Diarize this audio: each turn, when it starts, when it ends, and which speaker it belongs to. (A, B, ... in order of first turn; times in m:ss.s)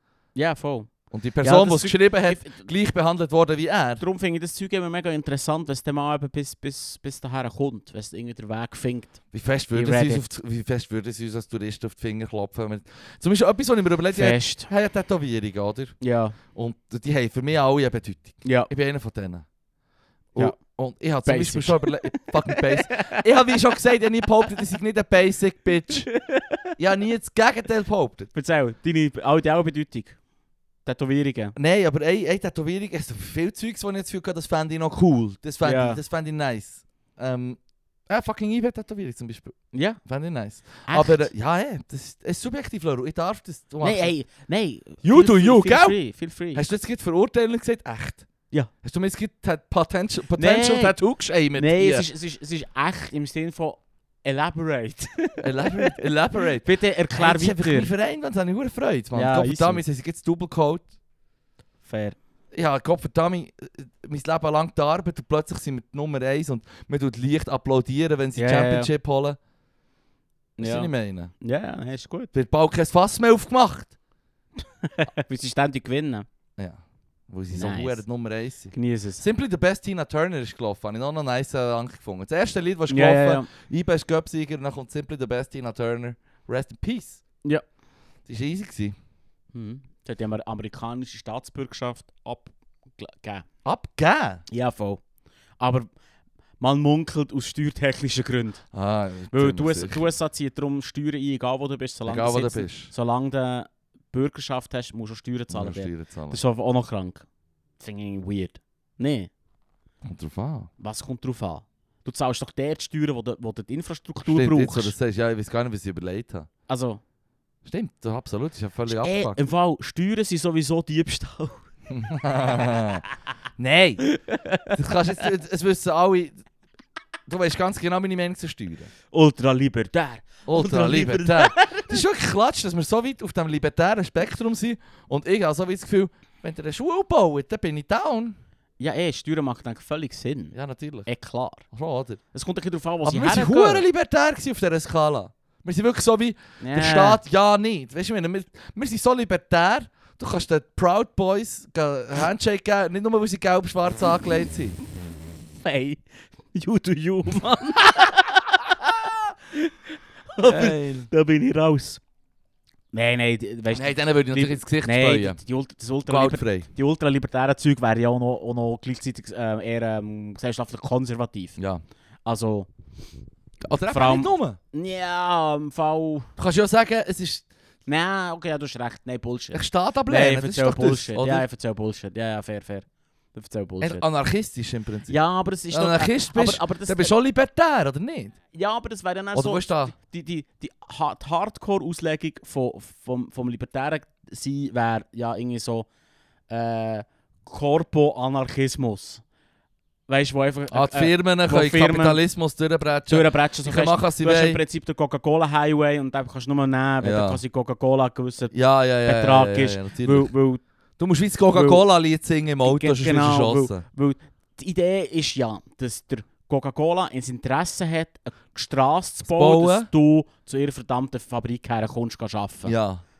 0:00.4-0:02.7 A
0:01.1-0:04.0 B
0:04.0-0:09.2 A
0:09.3-0:16.0 B
0:09.7-0:10.2 A
0:14.1-0:14.7 A
0:16.0-0:16.4 A
0:16.5-0:19.4 B
0:18.4-0:18.7 A
0:20.3-0:26.1 B
0:21.2-0:23.2 A
0:26.1-0:26.6 A
0:26.8-0:28.3 B
0:28.3-0:30.2 A
0:30.8-0:31.6 A
0:31.6-0:44.1 B
0:35.6-0:36.0 A
0:39.7-0:40.0 A
0:40.8-0:41.3 A
0:43.8-0:46.7 A
0:45.0-0:46.0 B
0:46.5-0:48.3 B
0:48.8-0:52.1 B
0:50.4-0:51.0 A
0:51.5-0:56.0 A
0:55.4-1:00.9 B
0:56.6-0:57.9 A
0:59.1-0:59.8 A
1:01.8-1:02.2 A
1:02.5-1:09.4 B
1:08.4-1:08.9 A
1:10.6-1:12.3 A
1:10.6-1:11.3 B
1:12.3-1:13.9 B
1:14.8-1:16.3 A
1:16.6-1:27.2 B
1:17.5-1:18.0 A
1:18.7-1:19.2 A
1:22.9-1:23.5 A
1:28.3-1:28.9 B
1:29.5-1:33.4 A
1:33.6-1:34.4 B
1:34.5-1:35.0 A
1:35.6-1:35.9 A
1:36.6-1:38.6 A
1:38.7-1:40.1 B
1:39.3-1:47.2 A
1:42.0-1:42.9 B
1:45.5-1:46.4 B
1:47.8-1:49.3 A
1:50.0-1:50.7 B
1:50.8-1:54.9 A
1:54.2-1:56.5 B
1:56.7-1:57.0 A
1:57.6-1:59.4 B
1:58.9-2:01.6 A
2:01.9-2:03.0 B
2:02.7-2:02.9 A
2:03.6-2:04.1 B
2:04.0-2:04.8 A
2:04.7-2:06.4 B
2:07.3-2:08.9 B
2:09.1-2:12.0 A
2:10.5-2:18.4 B
2:18.8-2:20.5 A
2:20.5-2:21.1 B
2:21.0-2:21.6 A
2:21.7-2:22.2 B
2:22.3-2:23.8 A
2:23.0-2:34.8 B
2:26.6-2:27.2 A
2:35.6-2:38.5 A
2:40.3-2:42.0 A
2:40.4-2:41.1 B
2:42.9-2:51.6 A
2:43.7-2:45.4 B
2:46.0-2:46.7 B
2:51.6-2:51.8 B
2:52.2-2:52.7 A
2:53.6-2:54.6 B
2:53.9-2:56.3 A
2:56.4-2:57.5 B
2:57.8-3:04.0 A
2:59.5-3:01.5 B
3:03.8-3:05.2 B
3:05.1-3:07.2 A
3:05.7-3:08.4 B
3:08.5-3:15.9 A
3:09.3-3:09.9 B
3:16.5-3:19.2 A
3:20.1-3:22.2 A
3:20.7-3:24.6 B
3:23.1-3:30.6 A
3:27.0-3:27.4 B
3:28.5-3:30.3 B
3:31.0-3:33.8 B
3:31.5-3:31.8 A
3:32.6-3:42.8 A
3:39.2-3:39.9 B
3:42.6-3:43.0 B